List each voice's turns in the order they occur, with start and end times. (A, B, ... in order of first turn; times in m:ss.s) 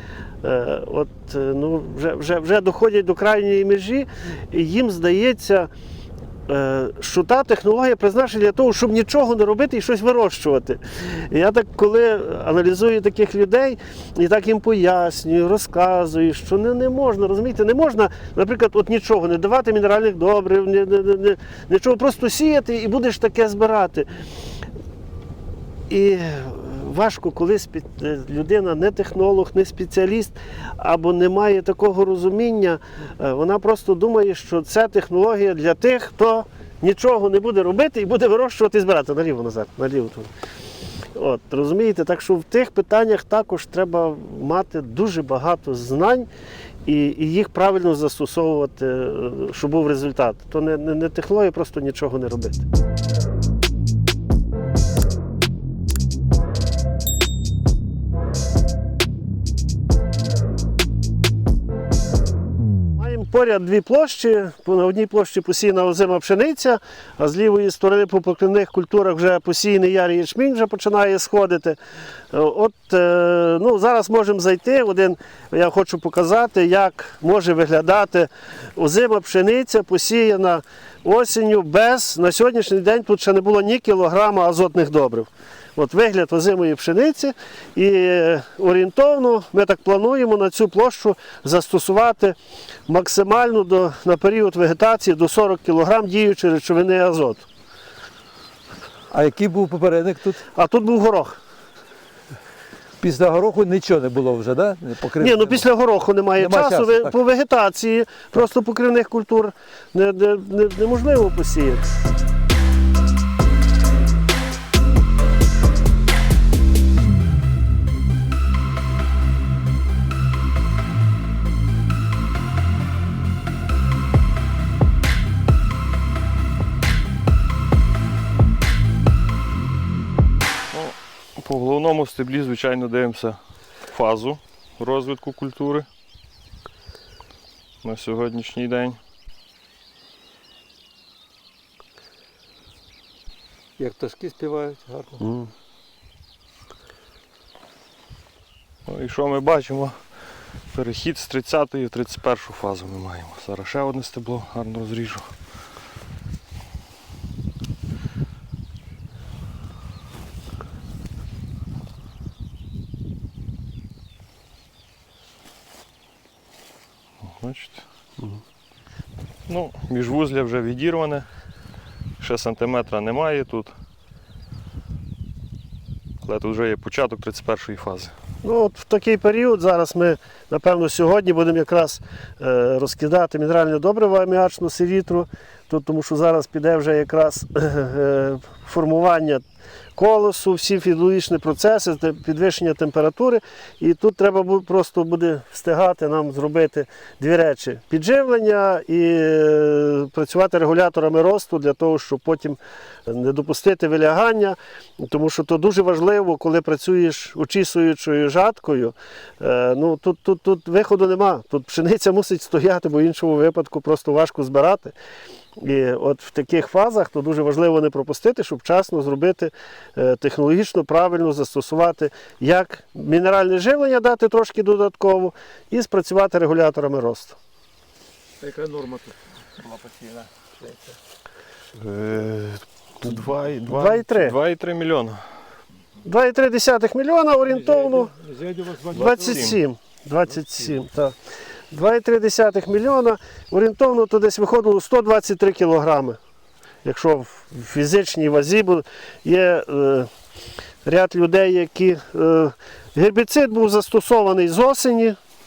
0:00.4-0:05.7 A
0:06.5-0:24.1 A
0:25.9-0:40.3 A
0:41.2-0:46.3 A
0:46.8-0:52.6 A
1:03.0-1:11.8 A
1:12.3-1:32.4 A
1:32.9-1:37.5 A
1:39.1-1:40.4 B
1:40.5-1:41.4 A
1:43.0-1:45.6 B
1:45.2-1:51.8 A
1:46.4-1:47.2 B
2:10.7-2:15.9 C
2:17.8-2:19.0 C
2:23.8-2:25.2 B
2:25.2-2:25.5 A
2:28.9-2:30.0 C
2:30.7-2:35.3 C
2:47.2-2:47.8 C
2:49.5-2:51.3 C
2:52.2-2:53.7 C
2:56.2-2:58.1 C
2:58.4-3:09.4 A
3:10.0-3:35.0 A
3:35.6-3:47.4 A
3:48.4-3:50.5 B
3:51.8-3:52.6 C
3:53.0-3:54.4 A
3:53.6-3:55.2 C
3:56.0-3:58.2 A
3:57.7-3:59.2 B
3:58.9-3:59.6 C
3:58.9-4:01.2 A
4:01.7-4:06.2 A
4:06.8-4:10.1 A
4:10.8-4:15.2 A